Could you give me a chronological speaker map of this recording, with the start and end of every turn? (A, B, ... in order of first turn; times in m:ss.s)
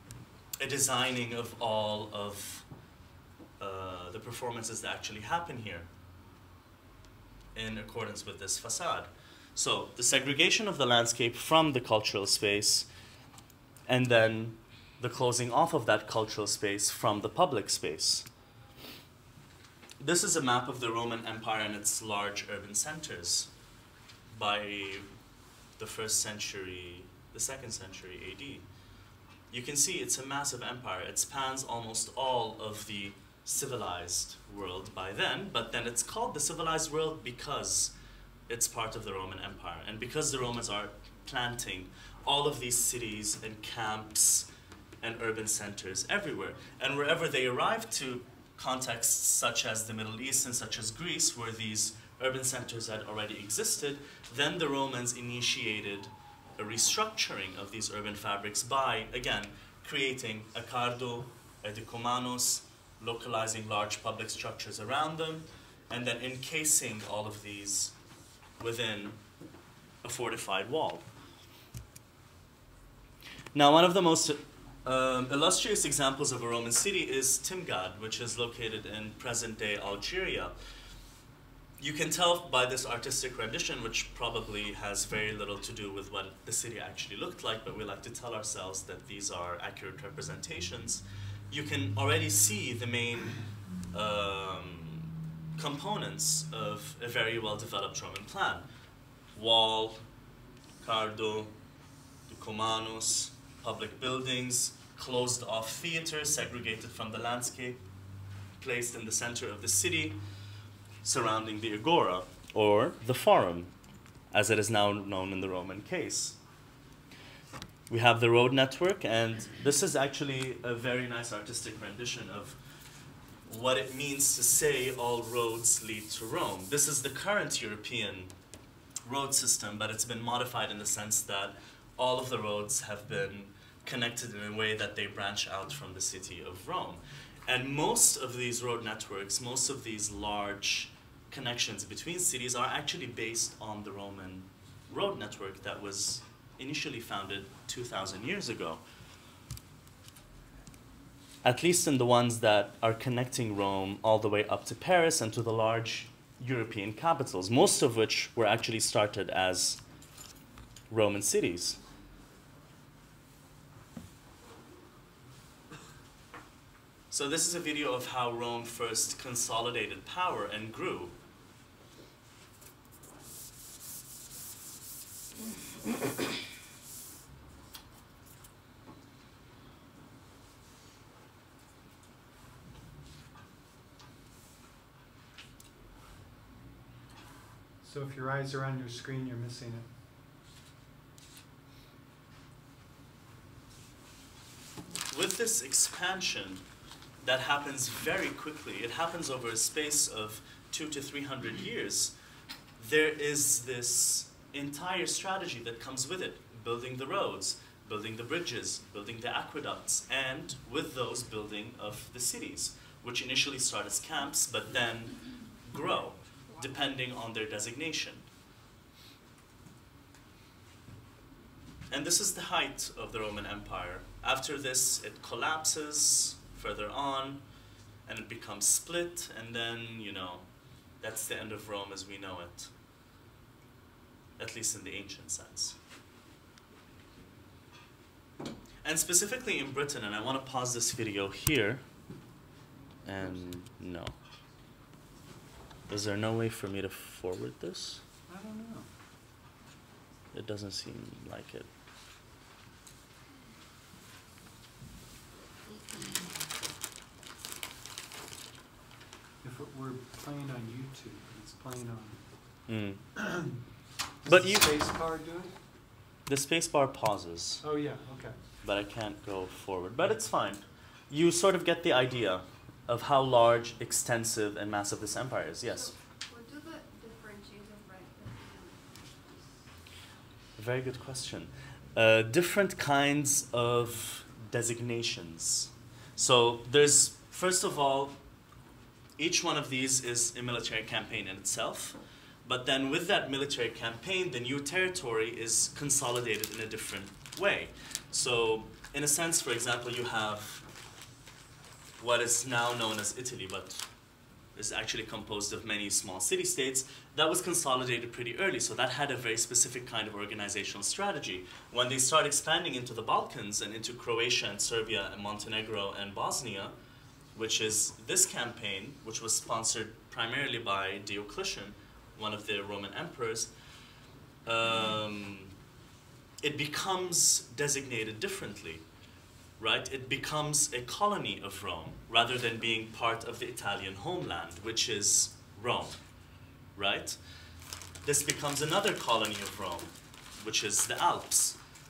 0:00.6-0:02.7 A
0:03.6-0:05.9 A
0:07.6-0:12.9 A
0:13.9-0:18.3 A
0:20.0-0:23.5 A
0:24.3-0:25.1 A
0:25.8-0:28.7 A
0:29.5-0:37.9 A
0:38.5-0:44.5 A
0:45.0-1:07.9 A
1:08.6-1:09.2 A
1:10.0-1:11.1 A
1:13.5-1:20.5 A
1:21.8-1:33.4 A
1:33.9-1:38.7 A
1:39.3-1:40.0 A
1:40.8-1:41.5 A
1:42.3-1:47.8 A
1:48.6-1:50.2 A
1:51.0-1:53.7 A
1:54.3-1:56.4 A
1:57.9-2:02.6 A
2:03.5-2:08.3 A
2:09.0-2:28.8 A
2:31.4-2:39.8 A
2:40.9-2:41.8 A
2:47.1-2:51.2 A
3:07.8-3:09.9 B
3:15.1-3:16.6 A
3:17.2-3:22.2 A
3:22.8-3:38.3 A
3:41.9-3:47.4 A
3:48.1-3:50.5 A
3:51.0-3:52.7 A
3:54.4-3:55.8 A
3:58.8-4:01.8 A
4:03.0-4:04.2 A
4:05.9-4:08.0 A
4:08.3-4:08.9 B
4:10.3-4:11.7 A
4:19.4-4:22.2 B
4:22.7-4:23.0 A
4:23.2-4:23.6 B
4:24.2-4:25.5 B
4:24.3-4:24.7 A
4:26.3-4:27.6 A
4:27.6-4:28.4 B
4:28.6-4:35.9 A
4:35.7-4:39.6 C
4:40.6-4:48.2 A
4:49.2-5:00.7 A
5:02.0-5:03.8 A
5:04.6-5:16.8 A
5:17.3-5:23.5 A
5:24.5-5:25.5 A
5:26.4-5:28.8 A
5:29.6-5:36.0 A
5:36.8-5:37.2 A
5:38.0-5:41.6 A